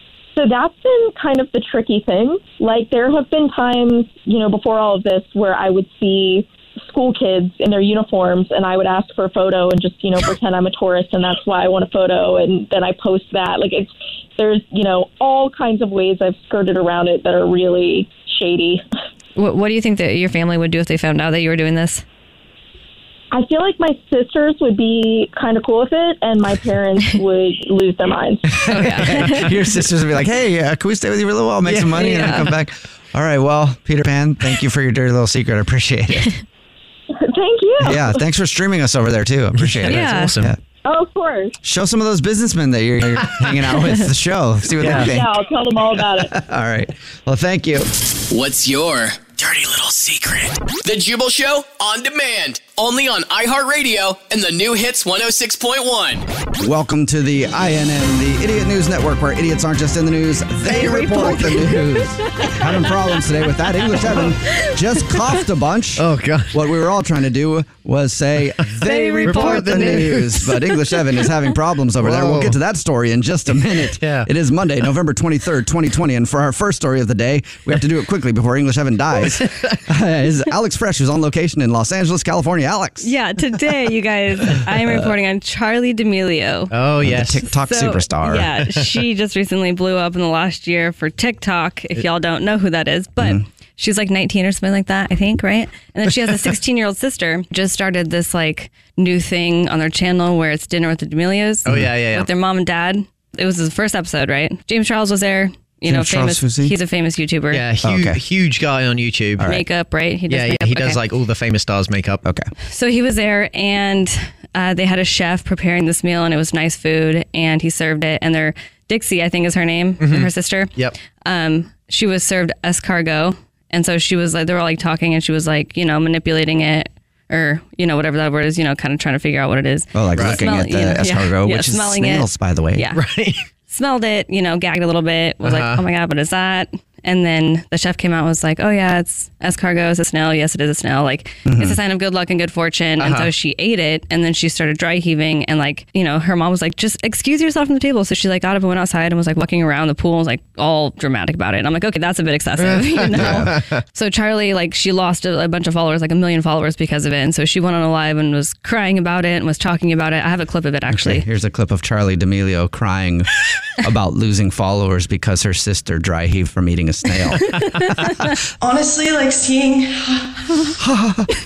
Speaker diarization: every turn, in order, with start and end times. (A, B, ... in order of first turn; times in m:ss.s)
0:00.4-0:18.8 A
0:19.4-0:22.0 B
0:23.3-0:28.7 A
0:28.6-0:29.5 B
0:28.8-0:36.3 C
0:31.6-0:32.4 D
0:32.0-0:32.5 B
0:37.1-0:38.2 A
0:37.8-0:40.6 C
0:39.6-0:40.6 D
0:39.8-0:40.3 B
0:40.8-0:41.6 A
0:41.6-0:45.4 C
0:44.8-0:45.2 D
0:44.9-0:46.4 A
0:46.2-0:47.9 C
0:48.3-0:56.2 E
0:56.6-1:23.2 C
1:00.7-1:02.6 B
1:06.0-1:06.7 D
1:08.6-1:10.4 D
1:08.8-1:11.2 B
1:12.0-1:12.6 D
1:13.9-1:14.3 D
1:19.4-1:19.8 D
1:23.0-1:26.7 B
1:24.7-1:25.1 C
1:26.7-1:27.4 D
1:27.0-1:28.5 C
1:27.5-1:47.7 B
1:33.2-1:33.4 C
1:41.7-1:42.3 D
1:45.9-1:46.8 C
1:47.5-1:49.5 D
1:47.8-1:48.2 C
1:49.4-1:49.6 C
1:49.4-1:51.0 B
1:50.3-1:52.2 D
1:52.6-2:13.0 B
2:00.0-2:01.0 D
2:09.9-2:12.9 C
2:10.2-2:10.4 D
2:12.9-2:13.4 D
2:13.7-2:41.3 B
2:15.4-2:15.8 D
2:21.4-2:21.8 C
2:23.0-2:23.3 D
2:32.6-2:33.8 D
2:33.2-2:33.5 C
2:40.9-2:48.3 C
2:48.6-2:50.7 F
2:50.8-2:51.3 C